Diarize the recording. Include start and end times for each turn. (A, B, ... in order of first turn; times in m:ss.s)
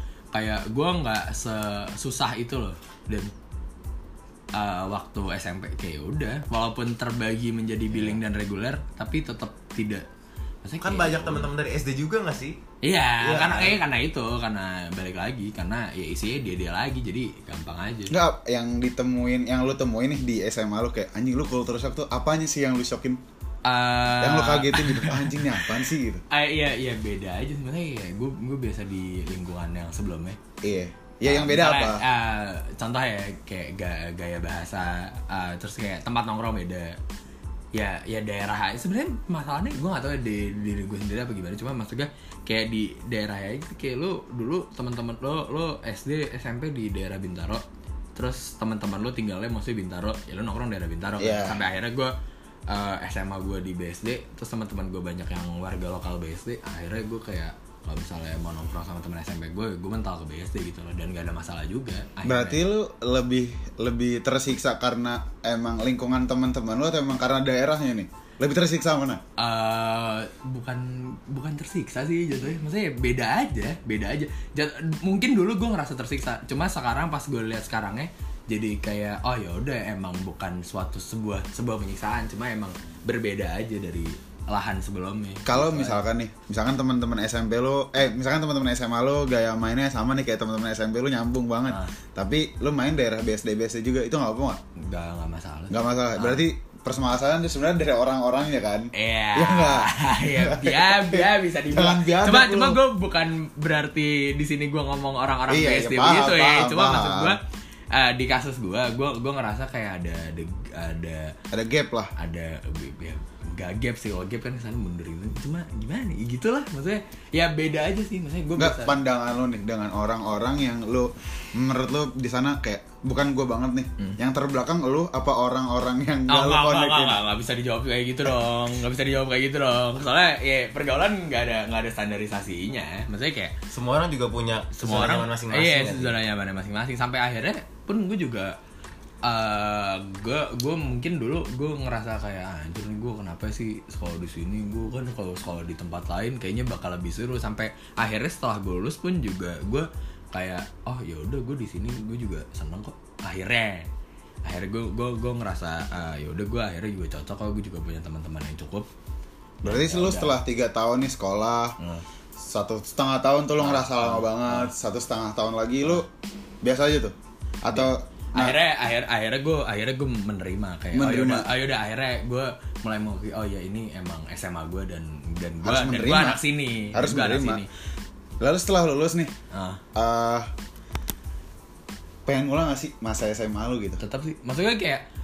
0:00.3-0:03.3 A
0:04.5-0:10.0 A
0:10.6-0:11.5 A
0:10.8-0:12.6 B
0:12.8-0:18.1 A
0:13.2-0:13.8 B
0:18.1-0:23.2 C
0:23.6-0:30.4 A
0:24.2-0:26.2 C
0:30.6-0:32.0 C
0:31.2-0:37.0 A
0:37.7-0:47.6 A
0:48.1-0:52.1 A
0:51.2-0:51.6 C
0:52.7-1:02.6 A
1:02.2-1:09.2 C
1:09.4-1:26.0 A
1:25.4-1:34.6 C
1:34.9-1:36.4 A
1:35.7-1:42.8 C
1:38.9-1:47.4 A
1:45.5-1:47.4 C
1:47.9-1:51.3 A
1:51.5-1:52.1 C
1:52.2-1:59.0 A
1:58.6-2:07.2 C
2:06.3-2:13.5 A
2:13.7-2:16.2 B
2:14.8-2:18.6 A
2:19.2-2:33.9 A
2:34.4-2:38.9 A
2:39.6-2:40.4 A
2:39.6-2:41.8 C
2:42.4-2:46.1 C
2:43.6-2:44.7 A
2:46.6-2:48.6 C
2:47.7-2:57.7 A
2:50.9-2:51.5 C
2:55.6-2:56.4 C
2:56.9-2:57.6 C
2:58.4-2:59.3 C
2:59.5-2:59.8 A
2:59.9-3:00.5 C
3:02.2-3:04.0 C
3:04.0-3:05.0 A